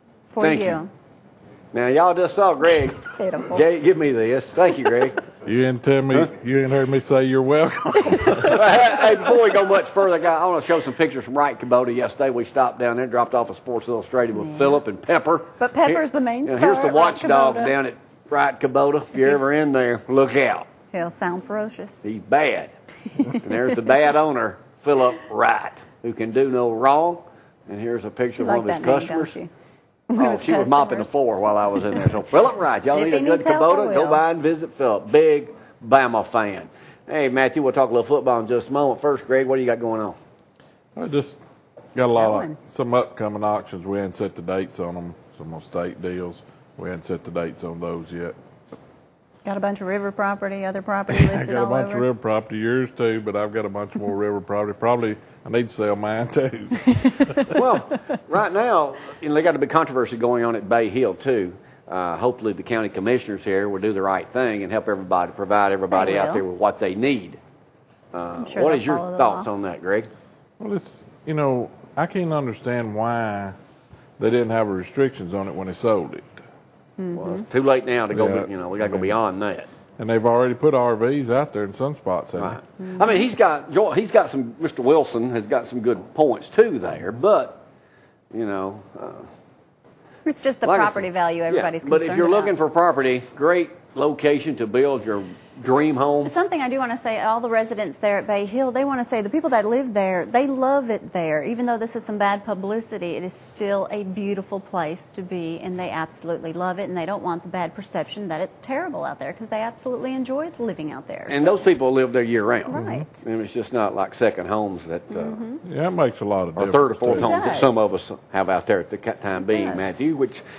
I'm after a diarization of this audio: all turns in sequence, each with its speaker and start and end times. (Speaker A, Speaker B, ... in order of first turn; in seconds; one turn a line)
Speaker A: 0.3-0.9
Speaker B: 0.4-0.8
Speaker B: 1.7-3.0
Speaker A: 3.0-3.6
Speaker B: 3.5-5.2
Speaker C: 5.4-8.6
Speaker A: 8.1-8.5
Speaker B: 8.5-20.6
Speaker A: 14.3-14.8
Speaker A: 15.6-17.8
Speaker A: 20.9-22.0
Speaker B: 22.0-22.7
Speaker B: 23.4-29.3
Speaker A: 28.4-29.5
Speaker A: 30.1-31.2
Speaker B: 30.2-40.1
Speaker A: 32.9-34.2
Speaker C: 40.9-41.4
Speaker C: 41.9-48.4
Speaker A: 42.1-42.6
Speaker A: 49.4-52.1
Speaker C: 51.1-57.5
Speaker B: 57.5-67.4
Speaker A: 65.9-66.4
Speaker B: 68.1-70.1
Speaker A: 68.4-69.5
Speaker C: 70.6-73.5
Speaker C: 74.2-76.4
Speaker A: 77.0-77.4
Speaker B: 77.1-79.7
Speaker C: 78.1-79.1
Speaker C: 80.0-82.6
Speaker B: 82.4-87.6
Speaker A: 82.8-83.1
Speaker B: 88.3-89.3
Speaker A: 90.2-92.5
Speaker B: 90.6-96.3
Speaker A: 96.2-111.6
Speaker B: 111.3-115.4
Speaker C: 112.7-113.0
Speaker A: 112.7-113.2
Speaker A: 115.1-115.6
Speaker C: 115.6-117.3
Speaker B: 116.5-120.4
Speaker A: 117.1-117.8
Speaker A: 119.4-119.9